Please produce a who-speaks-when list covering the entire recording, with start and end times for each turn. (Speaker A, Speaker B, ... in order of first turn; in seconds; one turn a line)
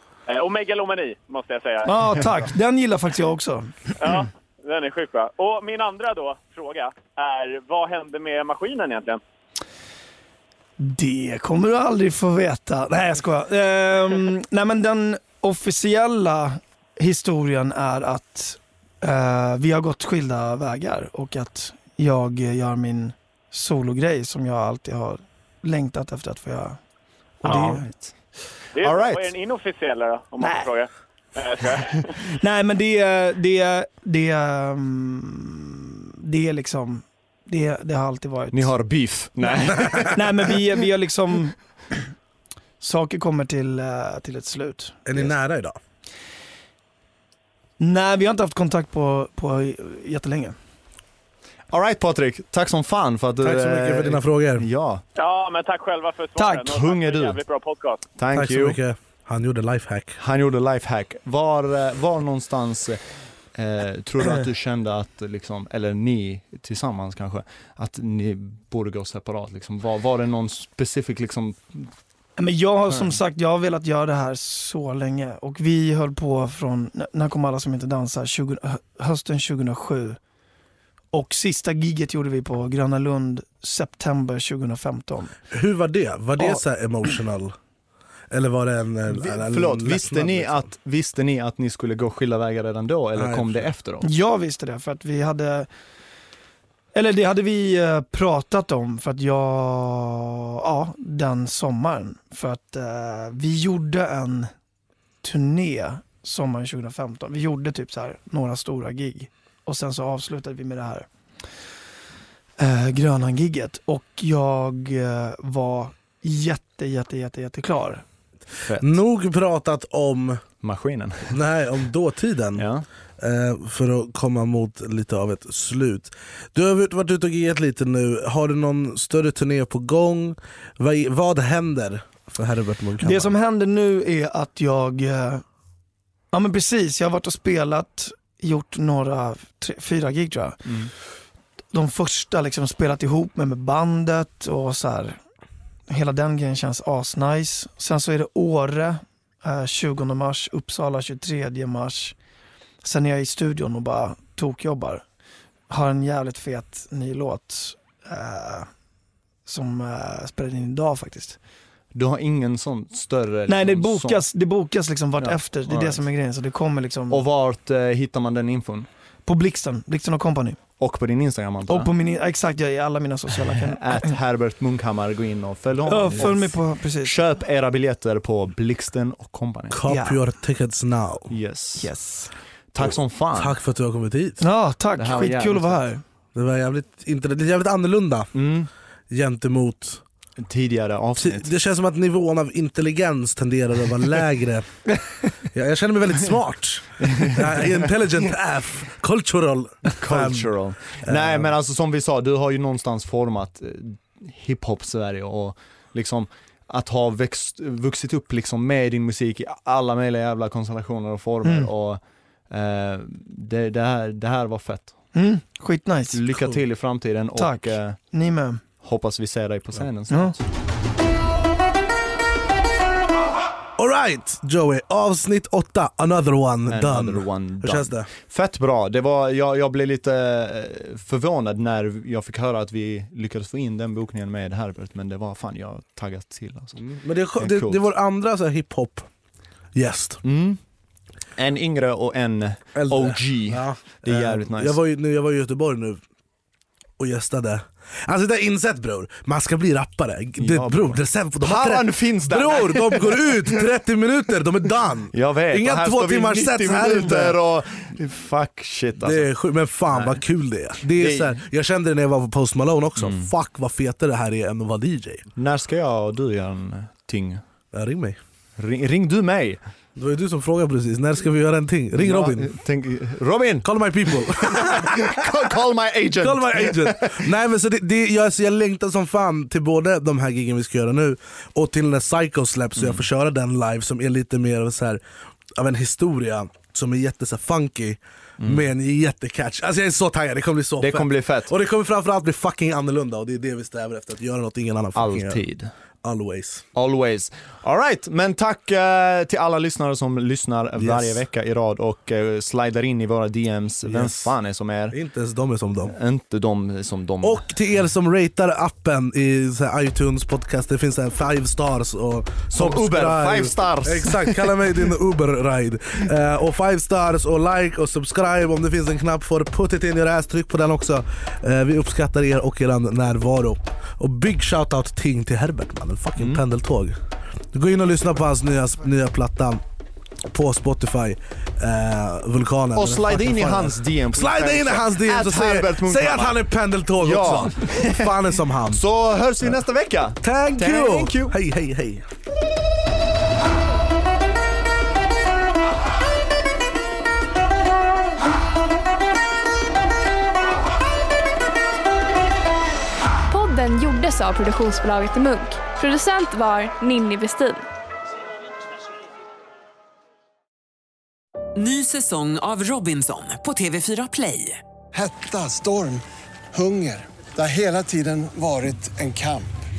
Speaker A: 0.3-2.3
Speaker B: 1.8-4.2
Speaker A: 4.0-9.2
Speaker B: 10.8-26.8
Speaker B: 27.4-27.8
Speaker C: 27.4-28.1
Speaker A: 28.7-32.1
Speaker C: 28.8-29.3
Speaker B: 30.4-30.7
Speaker B: 32.2-38.7
Speaker C: 38.5-40.2
Speaker B: 39.4-42.0
Speaker B: 42.8-45.0
Speaker D: 45.0-45.8
Speaker B: 47.8-50.5
Speaker C: 51.7-55.0
Speaker D: 53.4-54.6
Speaker A: 55.1-58.0
Speaker B: 56.4-56.8
Speaker C: 56.6-57.4
Speaker C: 58.1-58.8
Speaker D: 58.3-60.2
Speaker C: 60.2-63.0
Speaker C: 63.5-71.9
Speaker B: 72.4-80.2
Speaker B: 81.1-85.3
Speaker D: 85.5-87.5
Speaker B: 86.4-86.6
Speaker D: 88.3-90.7
Speaker C: 89.1-94.1
Speaker D: 93.1-93.7
Speaker B: 94.0-95.7
Speaker B: 96.9-104.5
Speaker B: 105.2-111.1
Speaker B: 112.6-118.0
Speaker C: 118.6-119.0
Speaker D: 118.8-120.4
Speaker C: 120.6-121.4
Speaker D: 121.3-122.7
Speaker C: 122.6-122.8
Speaker D: 123.2-133.3
Speaker B: 133.0-135.4
Speaker B: 136.3-140.7
Speaker C: 140.7-140.9
Speaker B: 141.7-145.2
Speaker B: 145.9-152.2
Speaker B: 152.8-155.0
Speaker B: 155.7-158.7
Speaker B: 159.4-161.4
Speaker C: 161.9-164.2
Speaker B: 163.5-167.2
Speaker C: 165.2-166.0
Speaker C: 167.1-168.9
Speaker B: 169.3-170.6
Speaker C: 170.8-171.9
Speaker B: 171.7-174.1
Speaker C: 173.7-179.8
Speaker B: 175.9-177.1
Speaker D: 179.7-181.3
Speaker B: 179.9-180.2
Speaker C: 181.3-181.9
Speaker B: 181.8-182.3
Speaker C: 182.7-183.6
Speaker D: 182.8-184.4
Speaker B: 184.4-186.0
Speaker C: 185.0-185.8
Speaker D: 186.3-188.3
Speaker C: 188.3-188.7
Speaker D: 189.1-190.0
Speaker C: 190.4-191.5
Speaker D: 191.2-194.7
Speaker D: 195.5-201.5
Speaker C: 197.0-197.7
Speaker C: 199.9-215.0
Speaker B: 211.4-211.7
Speaker B: 215.1-216.2
Speaker C: 216.1-218.0
Speaker B: 217.3-218.6
Speaker C: 218.8-220.4
Speaker B: 220.1-220.3
Speaker D: 223.8-228.1
Speaker C: 226.7-236.8
Speaker D: 236.8-239.1
Speaker C: 237.4-237.8
Speaker D: 239.7-240.2
Speaker C: 240.2-240.6
Speaker C: 241.4-244.8
Speaker D: 242.7-246.0
Speaker D: 247.0-257.4
Speaker C: 250.4-253.6
Speaker C: 255.1-259.3
Speaker D: 259.0-265.2
Speaker C: 259.9-260.2
Speaker C: 260.9-261.4
Speaker C: 263.0-263.3
Speaker C: 265.4-267.4
Speaker D: 267.7-268.2
Speaker C: 268.6-269.6
Speaker D: 269.9-272.5
Speaker C: 272.0-277.3
Speaker D: 273.6-275.2
Speaker D: 276.2-285.0
Speaker C: 282.8-283.0
Speaker D: 285.6-295.4
Speaker C: 290.8-291.5
Speaker C: 294.9-295.7
Speaker D: 296.0-296.6
Speaker C: 296.7-304.9
Speaker D: 300.8-301.2
Speaker D: 303.9-304.3
Speaker D: 304.9-305.9
Speaker C: 305.9-307.4
Speaker D: 307.2-327.0
Speaker C: 312.5-314.6
Speaker C: 326.2-326.4
Speaker D: 327.5-329.6
Speaker D: 330.3-338.8
Speaker C: 332.8-336.4
Speaker C: 337.0-341.3
Speaker D: 340.2-342.0
Speaker E: 353.3-357.6
Speaker F: 361.5-364.6
Speaker G: 364.9-369.5